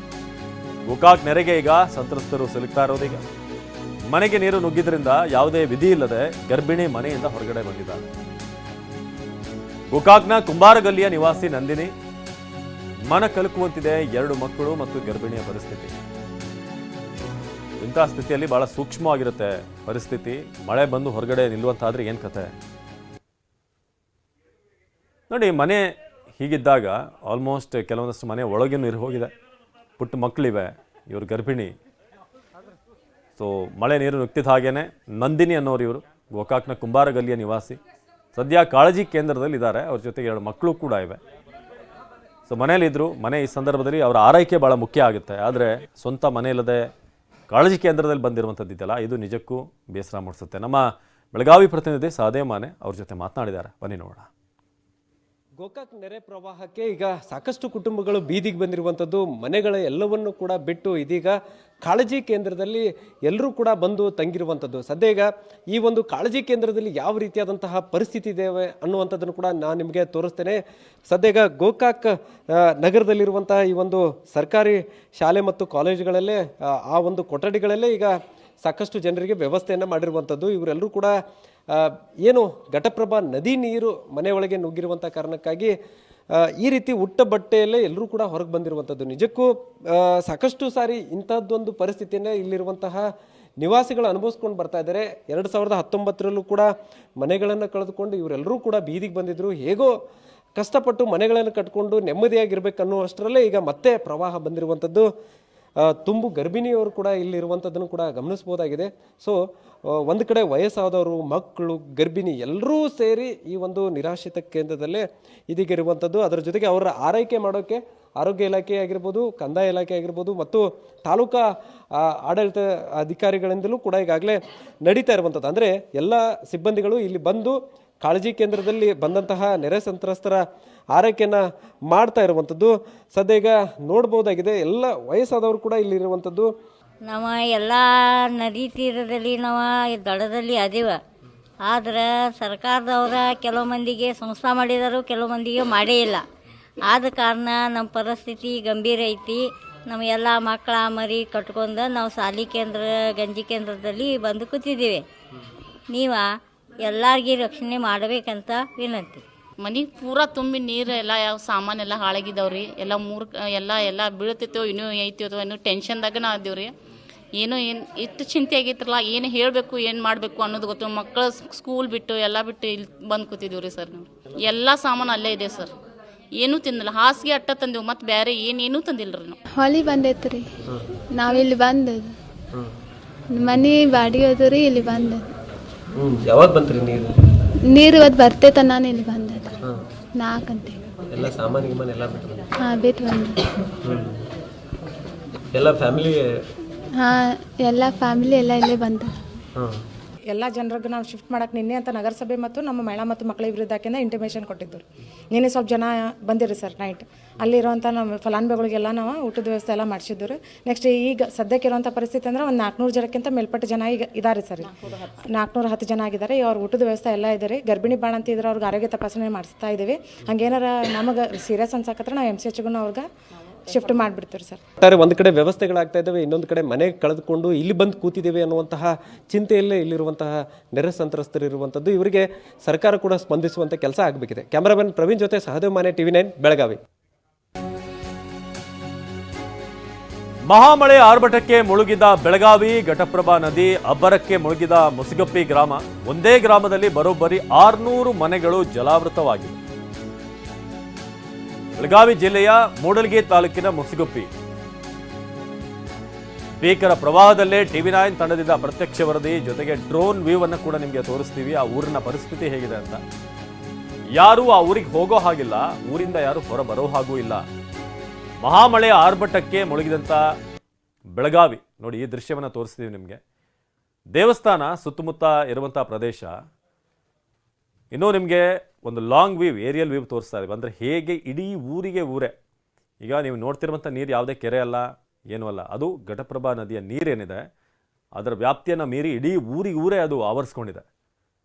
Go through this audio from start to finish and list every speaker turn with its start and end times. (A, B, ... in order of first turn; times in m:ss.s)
0:00.9-0:03.2 A
0:04.1-0:08.0 A
0:09.9-0:11.9 A
0:13.1-0:15.9 A
0:17.8-0:22.5 A
0:25.3-0:25.8 A
0:26.4-0:29.3 A
0:30.0-0:31.7 A
0:33.4-0:37.8 A
0:38.3-0:41.2 A
0:42.5-0:46.8 A
0:47.5-0:54.3 A
0:55.6-1:21.1 B
1:21.7-1:25.7 B
1:26.3-1:33.0 B
1:33.6-1:39.9 B
1:40.6-1:45.1 B
1:45.8-2:10.4 B
2:10.9-2:16.5 B
2:17.1-2:21.0 C
2:21.7-2:26.2 C
2:26.9-2:35.0 C
2:35.9-2:36.2 C
2:36.8-2:39.2 C
2:39.6-2:46.7 D
2:47.4-2:55.7 D
2:56.4-2:59.4 D
2:59.5-3:00.5 E
3:01.2-3:02.1 E
3:03.3-3:05.3 E
3:06.0-3:07.1 B
3:07.7-3:09.6 E
3:10.2-3:10.8 E
3:11.1-3:12.5 B
3:12.6-3:13.5 E
3:13.8-3:14.2 B
3:15.5-3:16.2 B
3:17.0-3:19.2 E
3:19.6-3:19.8 B
3:20.3-3:34.7 F
3:35.3-3:43.0 F
3:43.6-3:44.6 F
3:44.8-3:56.8 B
4:00.5-4:09.6 A
4:11.8-4:14.3 A
4:16.6-4:23.0 A
4:24.1-4:27.4 A
4:28.4-4:30.2 A
4:31.2-4:33.2 A
4:34.1-4:36.3 A
4:37.9-4:42.3 A
4:43.0-4:47.4 A
4:48.2-4:50.8 A